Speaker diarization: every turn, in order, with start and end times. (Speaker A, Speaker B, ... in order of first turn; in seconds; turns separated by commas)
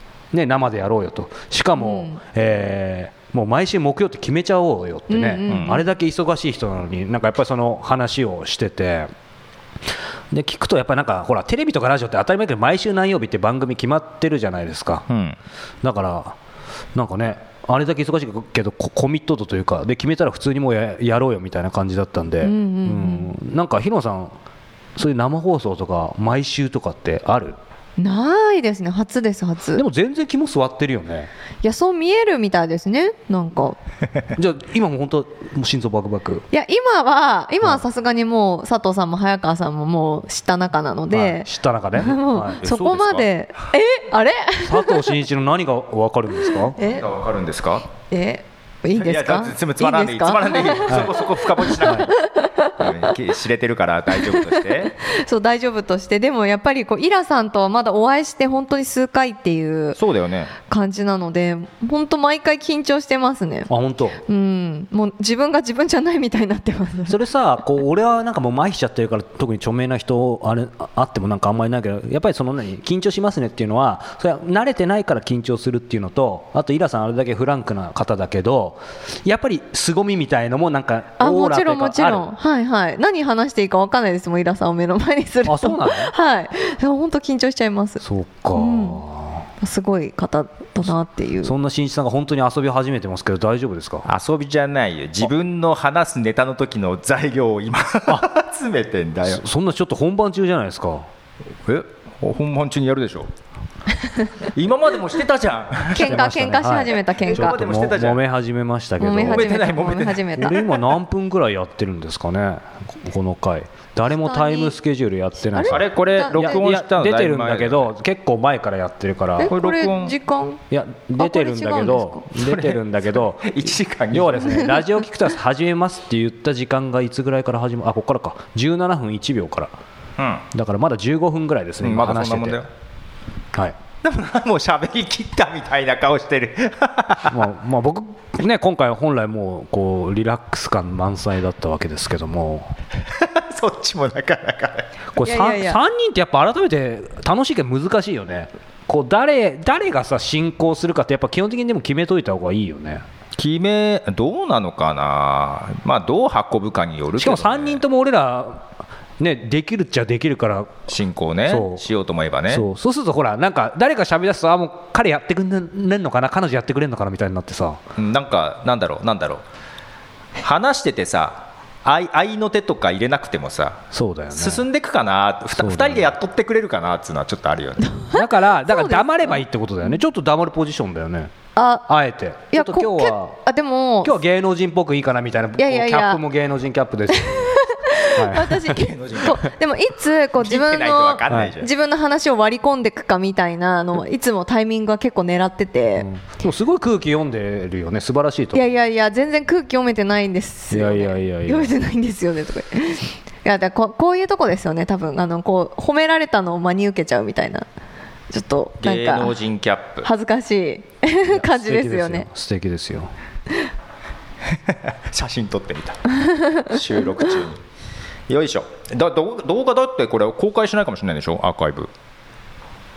Speaker A: 0.3-9.1, Speaker B: 1.8-2.2, Speaker B: 5.1-5.8, Speaker C: 5.5-5.8, Speaker A: 10.3-15.1, Speaker C: 15.1-15.4, Speaker A: 15.8-16.4, Speaker A: 16.9-24.3, Speaker B: 22.4-23.3, Speaker A: 24.9-27.6, Speaker B: 28.0-29.8, Speaker A: 29.8-31.3, Speaker B: 31.6-33.8, Speaker A: 34.4-36.4, Speaker B: 36.5-45.2, Speaker A: 41.1-42.6, Speaker C: 42.6-43.3, Speaker A: 44.6-46.8, Speaker B: 46.5-47.1, Speaker C: 46.8-47.9, Speaker B: 48.1-52.9, Speaker C: 48.9-52.2, Speaker A: 51.8-52.1, Speaker C: 52.8-54.9, Speaker B: 54.2-60.0, Speaker C: 60.0-60.5, Speaker B: 60.6-63.7, Speaker A: 63.7-64.2, Speaker B: 64.3-67.2, Speaker A: 67.1-82.3, Speaker B: 81.2-88.0, Speaker A: 85.4-86.1, Speaker A: 88.0-89.5, Speaker B: 88.5-89.0, Speaker B: 89.6-91.5, Speaker A: 91.4-94.1, Speaker C: 94.0-99.4, Speaker A: 99.2-101.1, Speaker C: 101.6-103.3, Speaker C: 104.5-106.3, Speaker B: 105.9-107.6, Speaker A: 106.0-109.7, Speaker C: 107.1-108.2, Speaker B: 109.0-110.8, Speaker C: 109.1-110.6, Speaker A: 110.4-119.5, Speaker B: 114.1-114.8, Speaker B: 115.5-116.6, Speaker C: 115.7-117.9, Speaker B: 119.4-120.6, Speaker C: 119.5-120.1, Speaker A: 120.7-129.7, Speaker B: 121.2-122.2, Speaker C: 122.4-124.7, Speaker C: 130.2-130.4, Speaker A: 130.5-132.6, Speaker C: 131.8-132.7, Speaker C: 134.0-137.4, Speaker A: 137.3-142.8, Speaker C: 143.0-144.9, Speaker A: 145.1-153.0, Speaker B: 145.2-145.8, Speaker C: 153.4-157.8, Speaker A: 157.2-158.7, Speaker A: 159.2-160.8, Speaker C: 160.9-162.7, Speaker A: 161.5-161.8, Speaker A: 162.5-167.8, Speaker C: 168.0-169.4, Speaker C: 170.4-173.8, Speaker A: 173.9-174.6, Speaker C: 174.3-178.0, Speaker A: 175.5-176.1, Speaker B: 177.9-179.4, Speaker A: 178.1-181.3, Speaker B: 181.6-181.9, Speaker A: 181.9-183.4, Speaker B: 182.5-184.2, Speaker A: 184.0-187.6, Speaker B: 185.6-186.2, Speaker B: 187.1-196.1, Speaker A: 188.1-188.8, Speaker C: 188.7-189.4, Speaker C: 190.4-191.7, Speaker A: 196.0-198.6, Speaker B: 198.5-207.7, Speaker A: 200.7-201.7, Speaker B: 208.3-209.4, Speaker C: 208.8-210.1, Speaker B: 210.0-212.3, Speaker A: 211.3-213.1, Speaker C: 214.4-216.0, Speaker B: 216.3-216.8, Speaker C: 216.7-217.6, Speaker C: 218.3-221.9